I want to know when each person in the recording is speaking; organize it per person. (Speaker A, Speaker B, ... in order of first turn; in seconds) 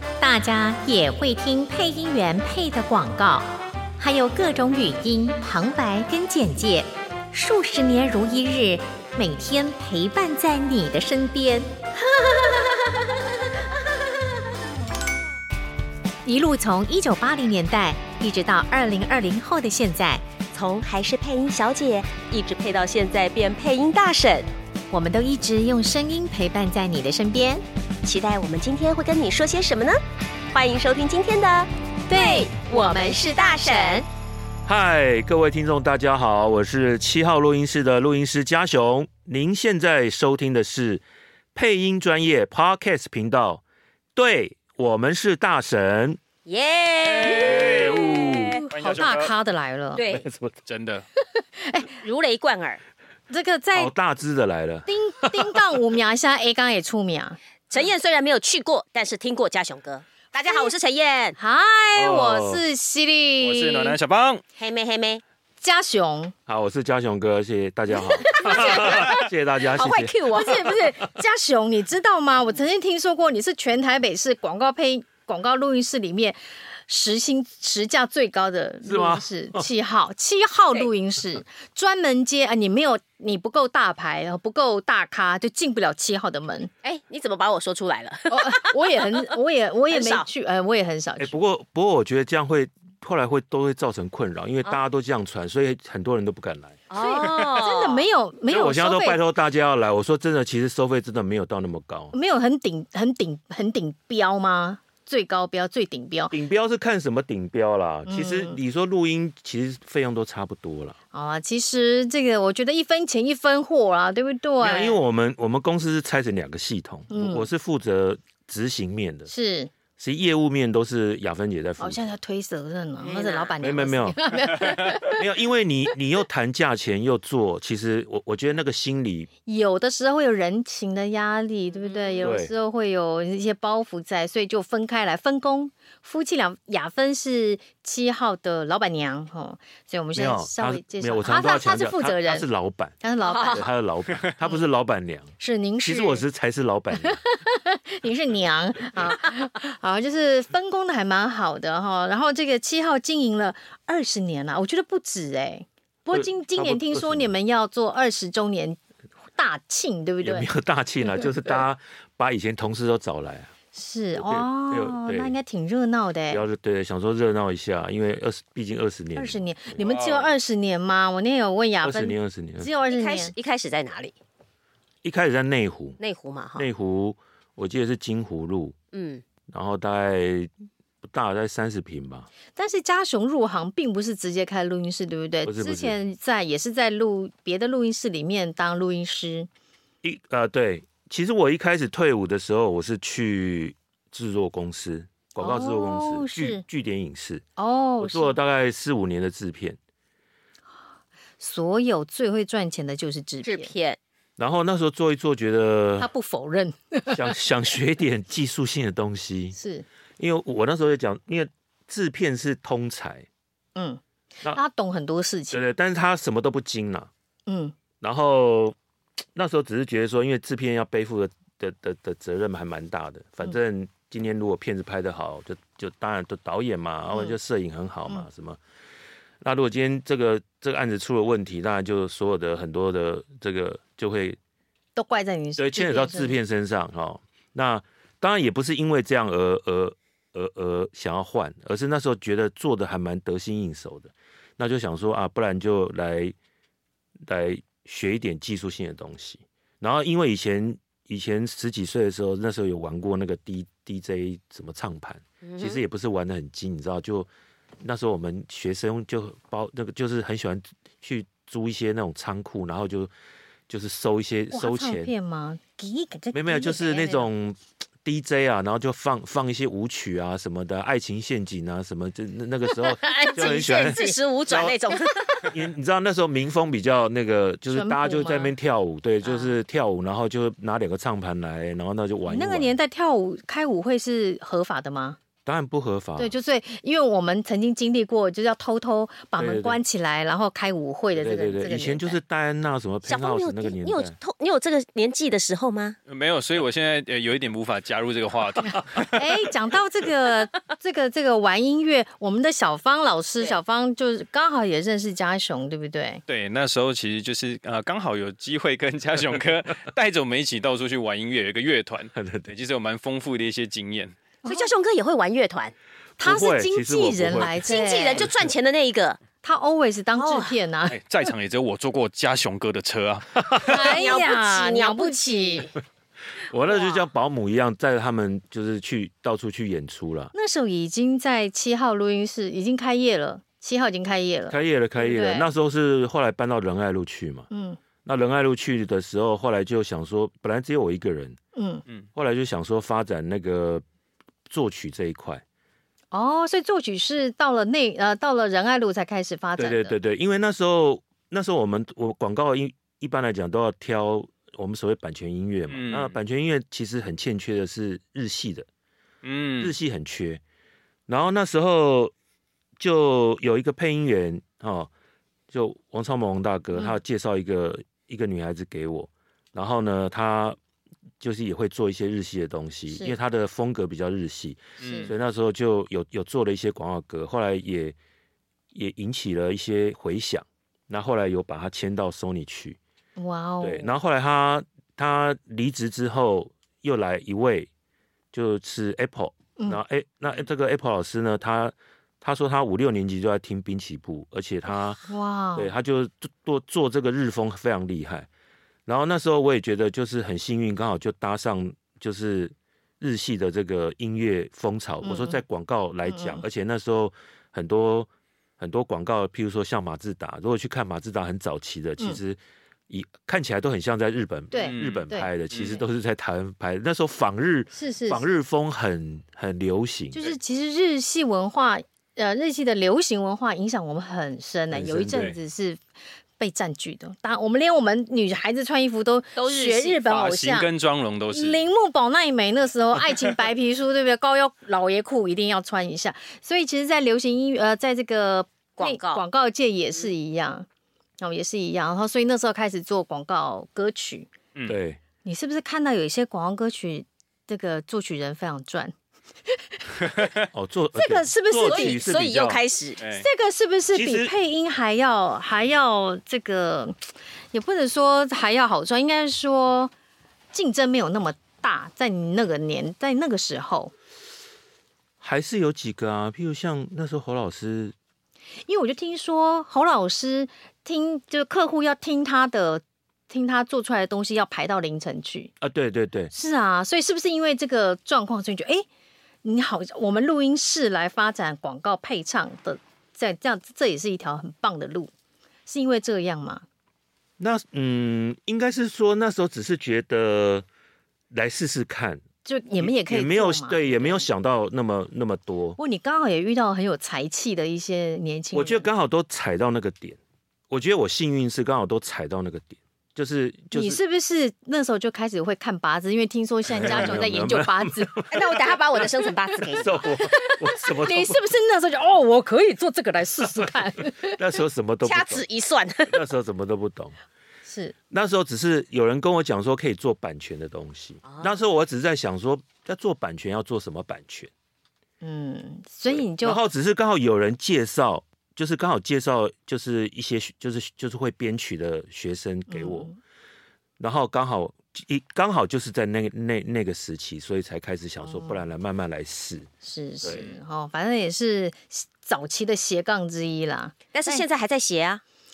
Speaker A: 0.2-11.7, 16.2-20.2, 24.9-27.6, 32.1-34.0, 47.5-50.0, 51.2-51.9, 53.3-53.9, 54.9-57.4, 60.4-60.7, 61.4-64.0, 65.6-66.3, 68.2-69.1, 70.3-86.7, 88.3-91.3, 97.0-99.2, 102.1-106.3, 108.1-108.6, 111.1-115.0, 117.1-117.5, 119.3-119.7, 121.8-125.2, 129.5-142.5, 143.0-143.7, 145.4-146.2, 146.9-158.8, 159.4-160.5, 163.7-166.4, 169.2-173.3, 182.6-189.5, 195.4-196.6, 197.6-198.4, 201.4-203.7, 206.0-207.3, 209.5-209.9, 213.8-215.6, 217.5-217.8, 235.0-236.4, 264.5-267.3, 272.8-274.2, 277.7-278.5, 282.3-285.2, 286.2-292.2, 299.1-306.2, 314.4-314.7, 316.2-318.3, 319.4-321.3, 323.6-325.7, 330.3-335.5, 337.5-337.8, 341.6-341.8, 346.1-349.9, 372.9-373.2, 374.8-375.1, 383.2-383.9, 395.0-395.7, 405.0-405.4, 406.1-406.4, 414.5-415.3, 417.7-418.2, 420.1-425.8, 426.4-430.7, 431.3-440.7, 441.2-444.3, 445.2-448.9, 449.5-450.2, 451.0-452.0, 453.1-457.0, 457.5-459.9, 460.5-463.9, 468.7-475.5, 476.3-478.9, 479.4-485.1, 485.7-486.6, 492.4-494.3, 495.8-498.9, 503.7-508.2, 510.2-514.4, 517.7-517.9, 525.2-526.6, 532.7-533.2, 538.2-538.6, 539.8-544.5
Speaker B: 12.1-13.0, 20.5-24.5, 28.0-30.0, 30.5-34.0, 46.5-48.6, 50.0-50.3, 52.0-52.8, 57.7-61.4, 64.6-65.2, 68.0-70.6, 86.8-89.3, 89.9-90.3, 96.9-98.1, 123.0-123.5, 131.7-132.3, 143.2-143.6, 172.9-174.2, 176.0-176.7, 178.9-179.2, 203.4-204.0, 255.4-255.8, 273.0-275.5, 279.2-279.5, 293.1-296.0, 314.4-315.7, 317.6-319.2, 320.1-320.5, 323.7-325.8, 326.7-327.0, 429.4-430.0, 438.8-439.2, 451.6-453.0, 508.3-510.0, 515.0-516.2, 521.2-521.5, 544.1-545.2
Speaker C: 34.7-41.0, 41.5-43.6, 44.1-46.2, 47.2-48.6, 50.1-50.6, 53.8-55.6, 62.0-62.6, 66.5-70.5, 78.9-79.6, 91.2-96.8, 98.5-102.1, 106.3-111.0, 114.6-119.3, 120.0-122.0, 123.6-129.3, 132.2-132.5, 140.2-143.0, 143.5-147.2, 156.1-157.3, 160.2-163.5, 164.2-165.4, 166.3-169.8, 171.8-172.7, 175.0-176.0, 176.6-178.8, 179.5-180.5, 181.0-182.3, 185.4-185.9, 190.0-197.4, 198.0-199.8, 204.4-206.1, 207.1-209.6, 210.2-213.3, 215.5-217.1, 218.0-218.8, 219.3-228.6, 229.4-234.4, 235.6-246.3, 247.2-257.3, 257.8-263.1, 263.7-265.1, 266.3-274.8, 275.4-282.8, 285.5-286.3, 289.4-289.8, 291.2-294.1, 312.1-312.5, 316.2-318.5, 326.4-330.3, 334.5-337.5, 338.1-341.4, 342.1-343.8, 344.5-345.4, 349.6-358.7, 359.6-360.4, 361.1-362.1, 362.8-364.9, 365.5-370.6, 371.2-378.0, 378.7-382.8, 383.6-387.7, 388.3-395.0, 395.6-398.3, 398.9-420.2, 424.7-425.4, 444.7-445.0, 450.5-452.6, 453.9-454.3, 465.2-467.9, 475.6-476.3, 487.4-490.7, 491.3-492.2, 492.8-495.8, 498.5-500.2, 500.7-504.0, 506.7-509.1, 509.7-511.4, 513.6-515.4, 516.1-517.2, 518.1-524.5, 526.1-533.1, 534.0-539.7
Speaker D: 48.7-49.3, 50.7-51.0, 63.4-64.4, 169.8-170.3, 296.1-299.1, 306.3-314.2, 320.9-323.6, 355.7-356.2, 359.2-359.7, 374.8-375.1, 414.6-415.8, 430.1-431.6, 453.0-453.3, 506.9-507.1